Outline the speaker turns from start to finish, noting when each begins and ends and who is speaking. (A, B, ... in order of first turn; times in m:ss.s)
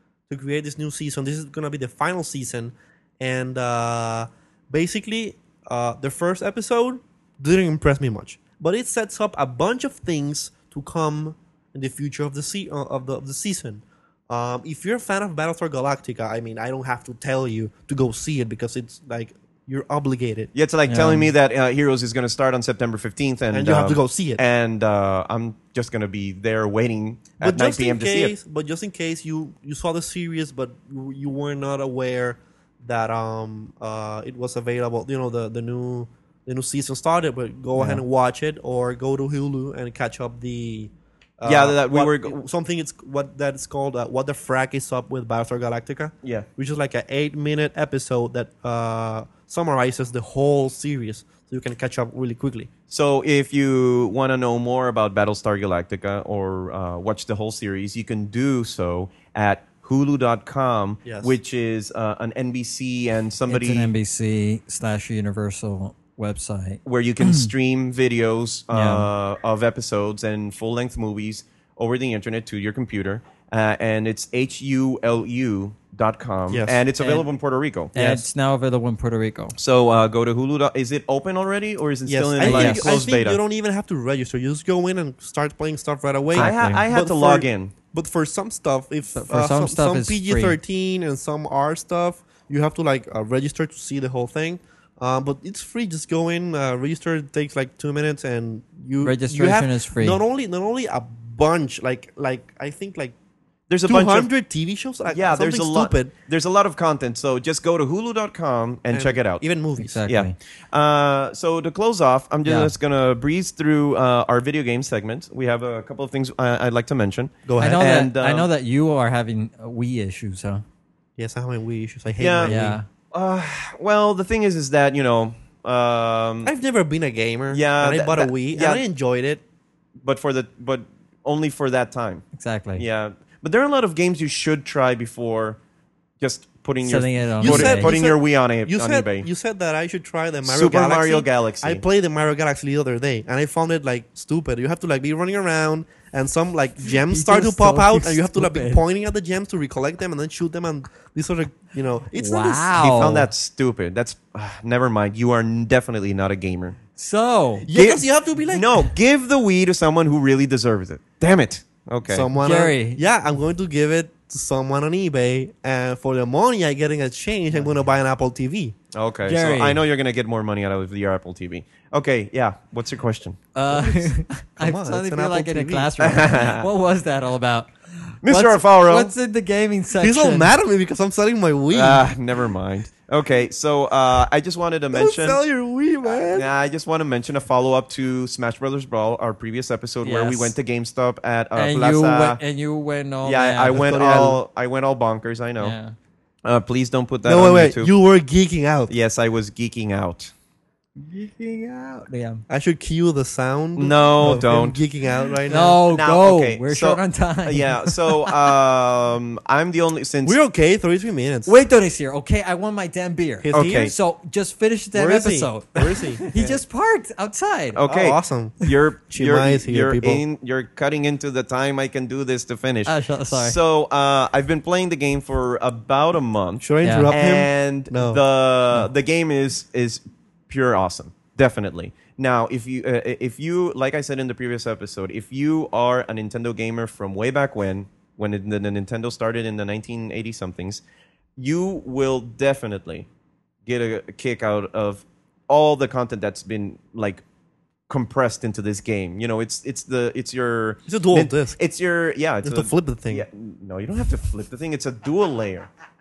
0:00.3-0:20.5 A
0:20.5-0:28.3 B
0:20.9-0:21.3 C
0:23.5-0:24.4 A
0:27.4-0:52.7 A
0:37.8-0:38.0 C
0:41.4-0:42.4 B
0:52.9-1:03.9 B
1:01.0-1:01.3 A
1:03.5-1:07.5 C
1:06.8-1:17.9 B
1:08.7-1:09.1 C
1:16.5-1:16.8 A
1:17.0-1:17.2 C
1:17.9-1:19.6 C
1:17.9-1:18.2 A
1:19.6-1:23.4 B
1:22.0-1:43.1 A
1:22.4-1:22.9 C
1:26.3-1:27.7 B
1:26.4-1:26.8 C
1:29.2-1:30.6 C
1:39.0-1:40.2 C
1:43.7-1:44.3 B
1:43.8-1:46.1 A
1:45.1-1:49.4 B
1:48.9-1:50.0 A
1:49.8-1:50.4 C
1:50.1-1:58.5 B
1:52.4-1:52.7 C
1:57.4-1:57.9 A
1:57.6-2:00.6 C
2:01.2-2:02.8 A
2:02.2-2:02.6 B
2:02.4-2:02.8 C
2:03.1-2:06.5 B
2:06.4-2:09.4 A
2:07.5-2:08.8 B
2:10.0-2:12.2 B
2:12.3-2:12.8 C
2:12.8-2:15.6 B
2:16.2-2:19.3 B
2:16.8-2:17.9 C
2:17.4-2:32.8 A
2:20.4-2:21.8 B
2:26.8-2:28.8 C
2:32.1-2:33.3 C
2:32.7-2:36.8 B
2:37.0-2:37.6 C
2:37.6-2:38.9 A
2:37.7-2:42.3 B
2:42.1-2:48.8 A
2:42.4-2:43.0 C
2:48.9-2:53.4 B
2:49.2-2:49.8 C
2:53.5-3:00.5 C
2:53.7-2:56.4 A
2:56.0-2:56.7 B
2:58.2-2:59.1 B
3:00.0-3:02.1 A
3:01.7-3:05.4 B
3:04.9-3:06.5 A
3:06.1-3:12.4 B
3:10.0-3:10.5 C
3:11.5-3:13.9 C
3:13.2-3:15.8 B
3:13.7-3:14.4 A
3:15.6-3:15.9 C
3:16.4-3:17.9 B
3:17.2-3:18.9 A
3:18.9-3:20.3 B
3:21.0-3:22.4 C
3:22.5-3:25.8 A
3:23.8-3:24.8 B
3:25.5-3:28.3 C
3:25.9-3:30.4 B
3:30.2-3:31.6 A
3:31.5-3:37.8 C
3:33.4-3:33.9 A
3:33.5-3:33.9 B
3:34.9-3:36.6 A
3:37.7-4:00.8 B
3:37.9-3:40.2 A
3:42.8-3:43.6 C
3:46.6-3:48.2 A
3:46.8-3:47.1 C
4:01.4-4:03.1 B
4:03.6-4:07.2 B
4:07.9-4:15.7 B
4:10.9-4:11.6 A
4:12.4-4:13.2 A